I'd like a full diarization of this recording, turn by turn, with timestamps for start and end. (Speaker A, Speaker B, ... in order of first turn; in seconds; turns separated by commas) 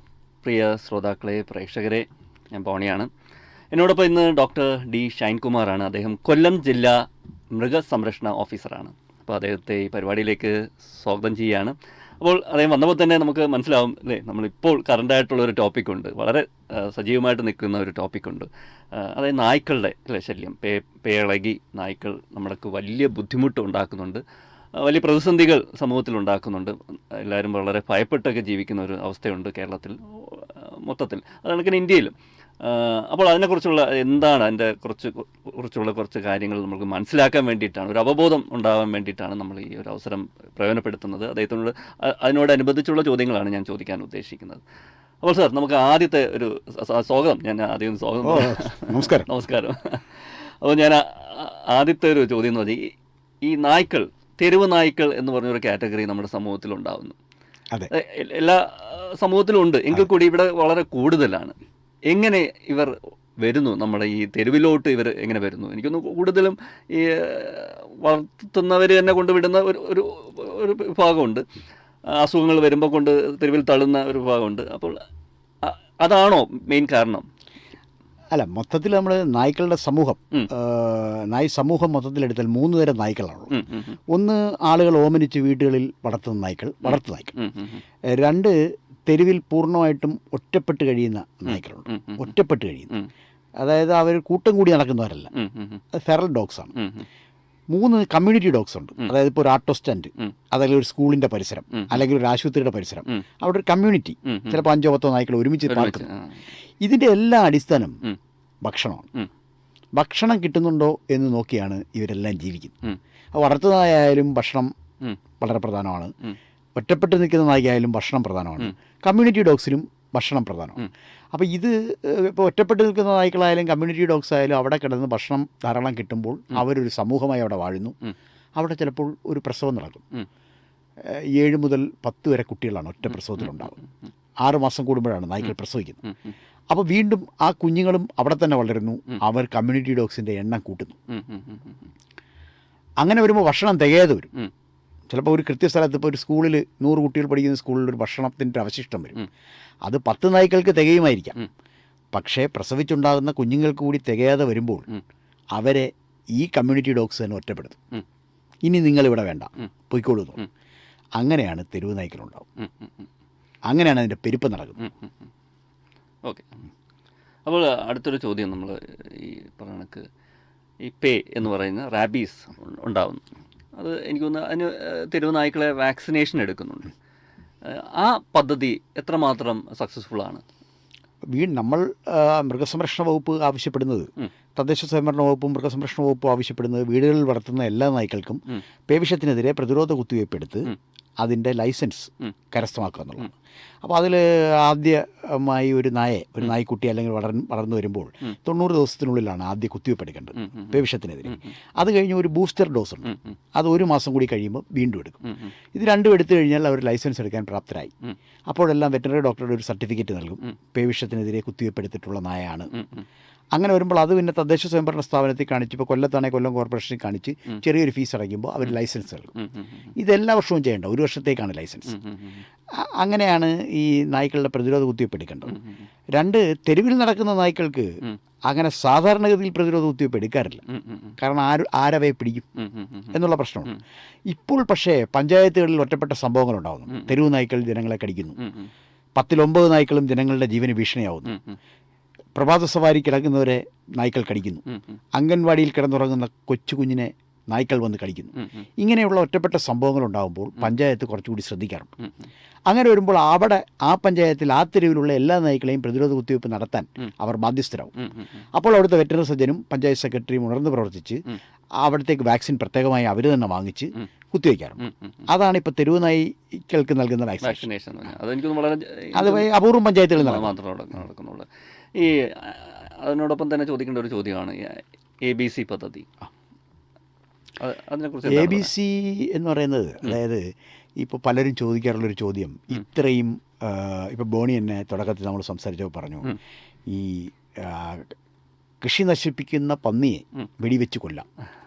Speaker A: 0.4-3.1, Speaker A: 3.7-24.2, Speaker A: 24.8-44.6, Speaker A: 45.2-57.2, Speaker B: 48.2-49.3, Speaker A: 57.9-61.5, Speaker A: 62.1-71.5, Speaker A: 72.1-75.0, Speaker A: 75.6-77.3, Speaker B: 78.3-83.6, Speaker A: 83.5-84.0, Speaker B: 84.1-87.3, Speaker A: 86.8-87.8, Speaker B: 88.1-92.9, Speaker A: 91.5-92.3, Speaker B: 93.6-95.3, Speaker A: 95.3-95.8, Speaker B: 95.9-96.7, Speaker A: 96.8-97.0, Speaker B: 97.7-106.1, Speaker A: 101.7-102.0, Speaker A: 104.2-104.6, Speaker A: 105.7-106.4, Speaker B: 106.8-108.0, Speaker B: 108.6-109.1, Speaker B: 110.0-112.8, Speaker B: 113.3-114.7, Speaker B: 115.4-116.1, Speaker B: 116.8-128.0, Speaker B: 128.6-130.0, Speaker B: 131.0-133.8, Speaker B: 134.4-136.0, Speaker B: 136.7-141.0, Speaker A: 141.1-141.9, Speaker B: 143.0-144.3, Speaker B: 145.1-149.2, Speaker B: 149.8-151.4, Speaker B: 152.1-154.9, Speaker B: 155.5-157.8, Speaker B: 158.6-160.4, Speaker B: 161.2-162.4, Speaker A: 162.6-162.9, Speaker B: 163.7-164.8, Speaker A: 164.8-165.1, Speaker A: 166.2-166.5, Speaker A: 167.5-170.1, Speaker A: 170.8-173.2, Speaker A: 173.8-176.9, Speaker A: 177.7-180.4, Speaker B: 181.3-205.2, Speaker A: 200.4-200.7, Speaker A: 203.1-203.4, Speaker B: 205.7-207.9, Speaker B: 208.5-212.7, Speaker A: 212.7-213.1, Speaker B: 213.5-219.3, Speaker B: 220.0-222.0, Speaker A: 221.9-222.4, Speaker B: 222.7-225.6, Speaker B: 226.1-230.6, Speaker A: 230.7-231.2, Speaker B: 231.2-232.4, Speaker A: 232.6-233.1, Speaker B: 233.1-233.8, Speaker B: 234.3-238.4, Speaker A: 238.4-238.7, Speaker B: 239.2-241.4, Speaker B: 242.3-251.9, Speaker A: 248.4-248.6, Speaker B: 252.7-257.9, Speaker B: 258.5-261.2, Speaker B: 261.8-267.7, Speaker A: 264.8-265.1, Speaker A: 267.4-269.5, Speaker B: 269.1-270.6, Speaker A: 270.2-276.1, Speaker A: 277.6-278.7, Speaker B: 278.3-288.1, Speaker B: 288.8-291.2